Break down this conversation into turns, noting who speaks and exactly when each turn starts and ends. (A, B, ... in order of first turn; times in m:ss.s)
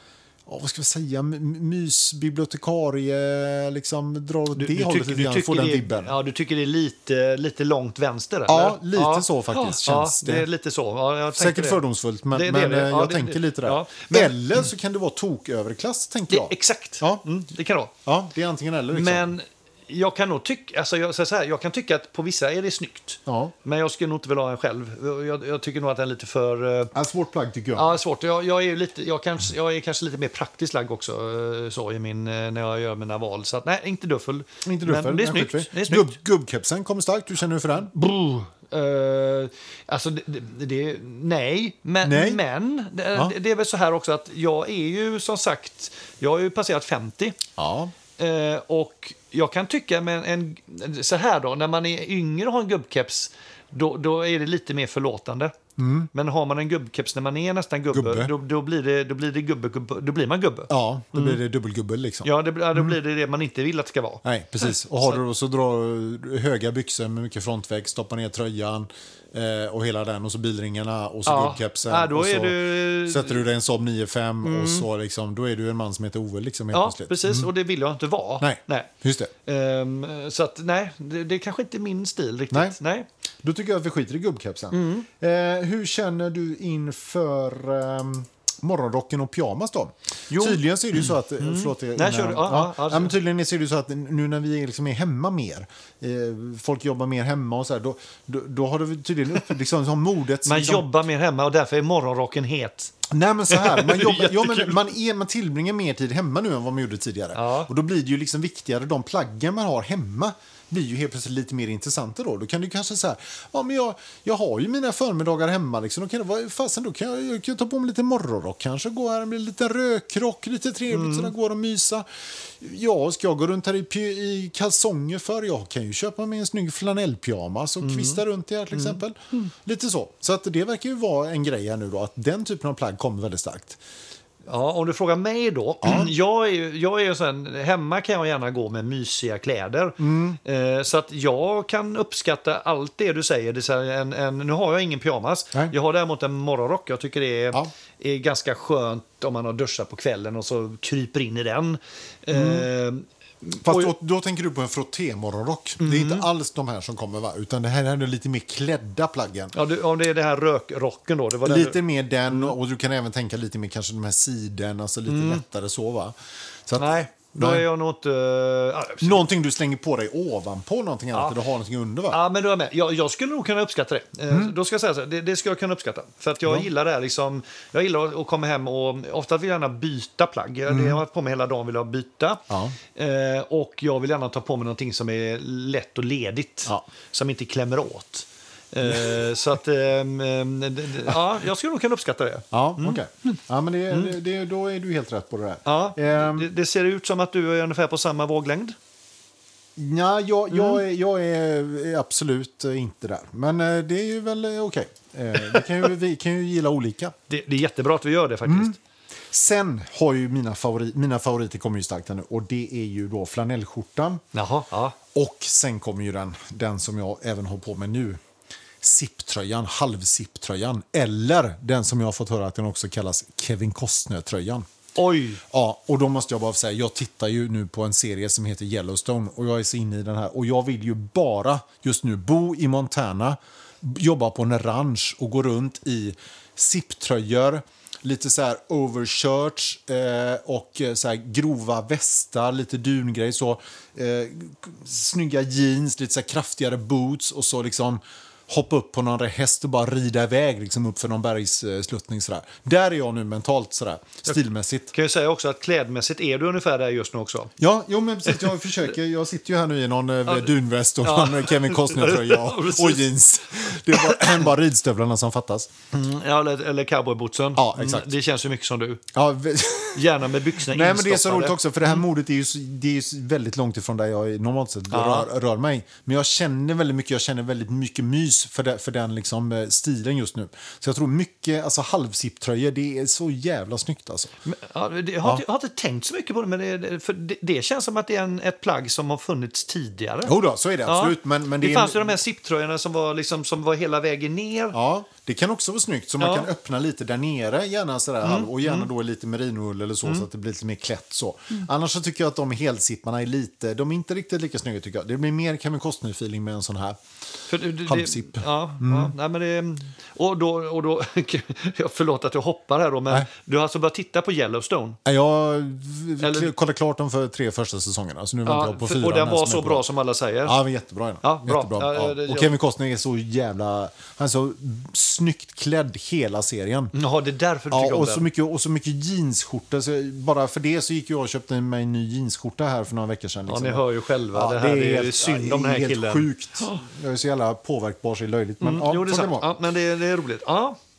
0:00.5-0:06.1 A
0:04.5-0:11.8 B
0:08.5-0:10.5 A
0:11.4-0:17.2 A
0:12.3-0:14.4 B
0:16.3-0:17.9 B
0:18.0-0:19.3 A
0:18.9-0:26.9 B
0:23.3-0:23.5 A
0:26.9-0:27.9 A
0:27.8-0:36.1 B
0:34.6-0:37.9 A
0:37.9-0:47.4 B
0:42.0-0:42.4 A
0:47.6-0:47.9 A
0:48.2-0:55.6 B
0:55.8-0:56.1 A
0:56.1-1:01.4 B
0:57.9-0:58.3 A
1:00.7-1:03.0 A
1:02.2-1:04.2 B
1:04.2-1:17.5 A
1:11.3-1:13.4 B
1:14.4-1:14.9 B
1:16.7-1:18.9 B
1:18.4-1:19.3 A
1:19.4-1:23.1 B
1:22.5-1:22.8 A
1:23.4-1:40.9 A
1:24.7-1:25.1 B
1:30.3-1:33.2 B
1:40.4-1:42.9 B
1:43.1-2:13.8 A
1:43.5-1:44.8 B
1:47.3-1:47.7 B
2:00.9-2:01.3 B
2:07.8-2:09.5 B
2:14.5-2:33.9 B
2:15.8-2:16.1 A
2:20.0-2:20.4 A
2:32.3-2:32.7 A
2:33.6-2:39.5 A
2:35.8-2:36.3 B
2:39.5-2:42.5 B
2:41.4-2:46.1 A
2:45.1-2:45.4 B
2:46.7-2:47.6 A
2:46.8-2:49.2 B
2:49.0-2:52.2 A
2:52.1-3:13.0 B
3:00.7-3:01.0 A
3:02.5-3:02.8 A
3:08.8-3:09.2 A
3:12.5-3:16.5 A
3:15.6-3:18.8 B
3:19.8-3:27.2 A
3:20.5-3:20.8 B
3:27.3-3:28.8 B
3:28.5-3:28.8 A
3:29.3-3:34.2 A
3:34.3-3:35.0 B
3:35.1-3:38.2 A
3:38.8-3:44.6 A
3:45.0-3:45.4 B
3:45.5-4:14.9 A
4:14.9-4:17.5 B
4:17.6-4:25.7 A
4:20.3-4:23.1 B
4:23.9-4:24.4 B
4:25.9-4:29.0 B
4:27.6-4:28.1 A
4:29.1-4:44.3 A
4:29.9-4:32.0 B
4:34.9-4:35.3 B
4:44.5-4:50.4 B
4:50.3-4:52.2 A
4:50.9-4:54.8 B
4:54.7-5:07.0 A
4:56.2-4:56.5 B
4:58.2-4:58.9 B
5:07.5-5:15.0 B
5:07.9-5:09.1 A
5:15.0-5:19.9 A
5:16.2-5:16.5 B
5:18.4-5:20.6 B
5:20.4-5:26.9 A
5:21.2-5:22.5 B
5:26.9-5:28.3 B
5:27.7-5:39.5 A
5:33.5-5:36.8 B
5:38.6-5:40.8 B